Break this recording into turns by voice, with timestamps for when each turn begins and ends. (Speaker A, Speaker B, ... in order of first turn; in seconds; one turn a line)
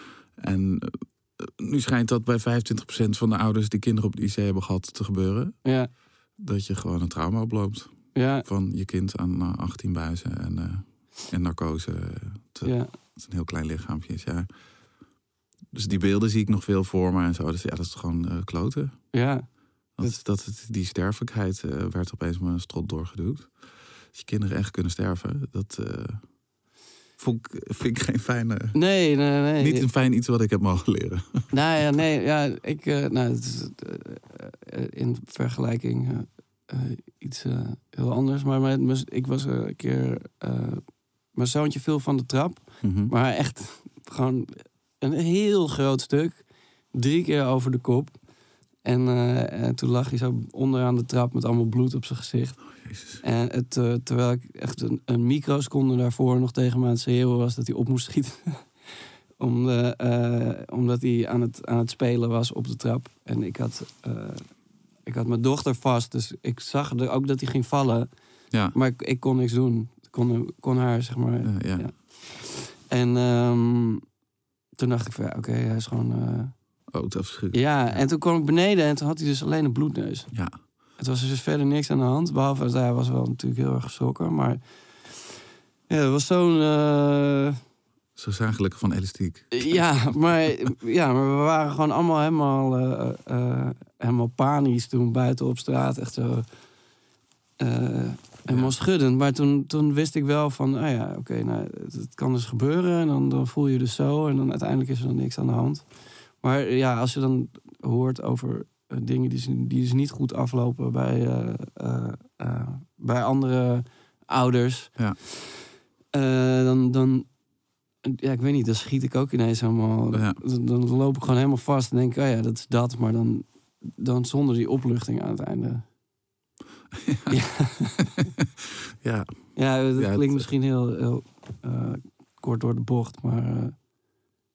Speaker A: 0.4-5.6
Speaker A: 6.4-14.5
Speaker B: 8.2-8.5
Speaker B: 12.6-12.9
Speaker A: 15.7-19.0
Speaker B: 19.1-19.5
Speaker A: 20.0-23.5
Speaker A: 24.1-26.2
Speaker A: 27.2-28.8
Speaker B: 28.7-29.9
Speaker A: 29.6-31.5
Speaker B: 31.5-40.8
Speaker B: 41.4-48.1
Speaker A: 42.8-43.1
Speaker B: 48.8-52.6
Speaker A: 52.9-53.2
Speaker B: 53.2-58.7
Speaker B: 59.4-64.5
Speaker B: 65.1-68.1
Speaker B: 68.7-74.0
Speaker A: 71.5-71.9
Speaker B: 74.8-76.5
Speaker A: 76.9-78.0
Speaker B: 77.5-80.3
Speaker B: 81.0-85.3
Speaker B: 85.9-87.6
Speaker A: 88.2-89.9
Speaker B: 89.5-96.5
Speaker B: 97.6-105.8
Speaker B: 106.4-115.5
Speaker B: 116.1-117.3
Speaker B: 118.0-125.8
Speaker A: 120.1-120.4
Speaker A: 126.9-127.4
Speaker B: 127.3-128.1
Speaker A: 128.0-129.3
Speaker B: 129.6-133.8
Speaker A: 130.0-130.5